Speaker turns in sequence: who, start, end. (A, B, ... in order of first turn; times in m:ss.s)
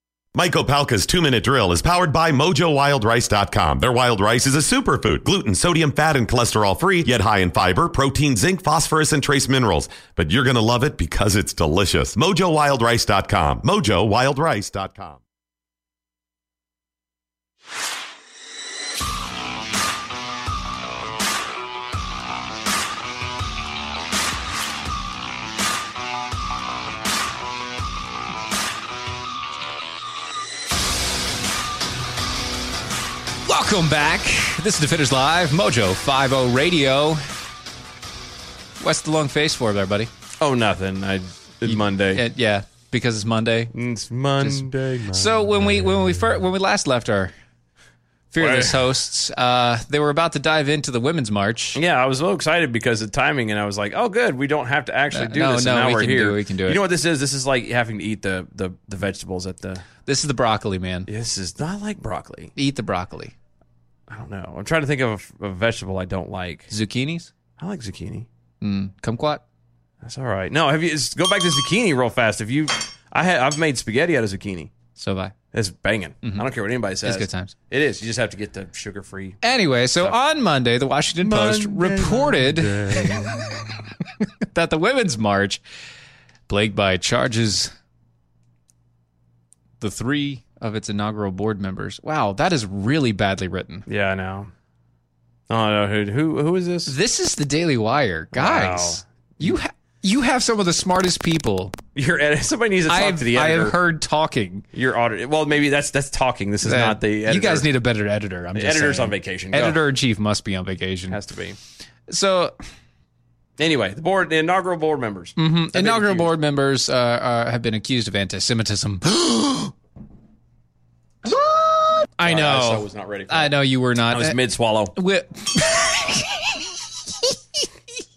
0:00.3-0:15.2 A
0:33.4-0:37.2 B
0:38.8-0:40.1 B
0:40.4-0:42.2 C
0:41.6-0:43.7 B
0:43.7-0:45.5 C
0:44.4-0:47.3 B
0:48.3-0:51.8 B
0:48.4-0:48.8 C
0:51.7-0:59.8 C
0:55.1-0:56.8 B
1:00.0-1:01.1 B
1:01.1-1:02.5 C
1:02.6-1:03.3 B
1:04.1-1:06.7 C
1:06.7-1:07.3 B
1:07.6-1:08.3 C
1:08.6-1:09.4 B
1:10.0-1:14.7 C
1:15.0-1:15.3 B
1:15.5-1:19.4 C
1:17.0-1:17.5 B
1:19.4-1:23.3 B
1:21.2-1:23.8 C
1:24.2-1:25.6 B
1:26.5-1:27.7 B
1:29.8-1:33.9 B
1:33.9-1:34.5 C
1:35.5-1:36.9 C
1:36.9-1:41.8 B
1:38.3-1:39.5 C
1:41.9-1:43.8 C
1:42.9-1:44.6 B
1:44.7-1:47.7 C
1:46.6-1:51.2 B
1:48.5-1:49.8 C
1:51.1-1:51.6 C
1:52.1-1:52.6 B
1:53.6-1:56.3 C
1:55.4-1:59.7 B
2:01.2-2:04.4 B
2:02.2-2:03.6 C
2:04.1-2:04.9 C
2:04.9-2:06.6 B